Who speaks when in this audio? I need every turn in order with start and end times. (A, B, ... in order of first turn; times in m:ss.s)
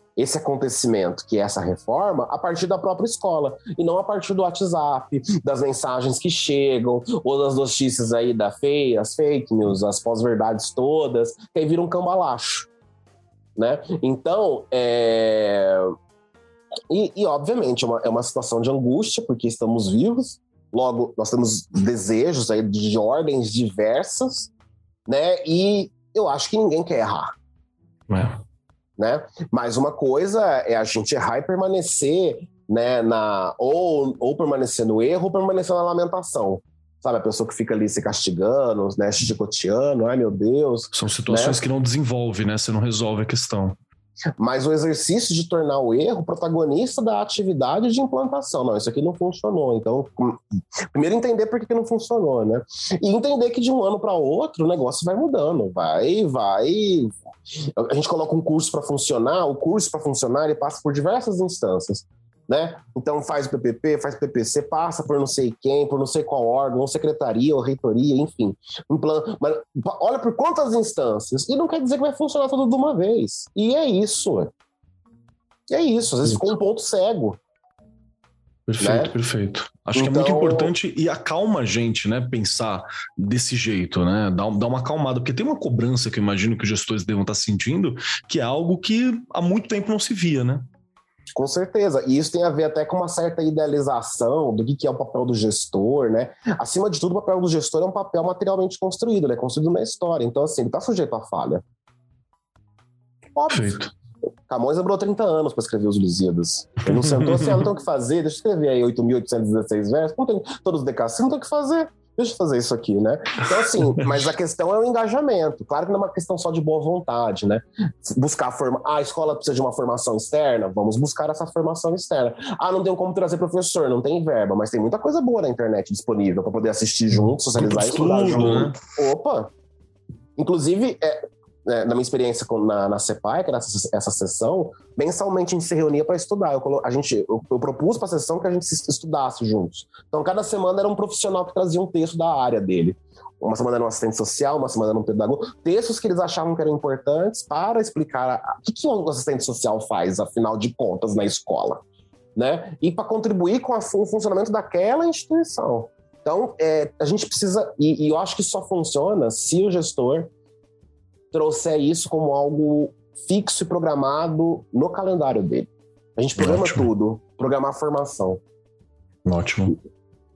0:00.2-0:12.7 A
0:13.6-0:15.9 A
0:16.9-0:24.5 A
0:25.1-0:27.3 A
0:28.1-0:28.4 B
0:29.0-0:41.6 A
0:40.9-0:43.8 B
0:44.4-0:50.4 A
0:50.9-0:57.2 A
0:57.8-1:14.5 A
1:15.7-1:17.4 A
1:16.2-1:16.5 B
1:18.6-1:30.6 B
1:18.8-1:19.1 A
1:19.9-1:20.7 A
1:31.4-1:41.6 A
1:43.3-1:43.8 A
1:43.5-1:43.9 B
1:44.5-2:09.5 A
1:47.0-1:47.6 B
2:07.1-2:08.8 B
2:10.4-2:31.8 A
2:32.4-2:40.3 A
2:41.3-2:48.4 A
2:46.4-2:46.9 B
2:49.2-2:49.8 B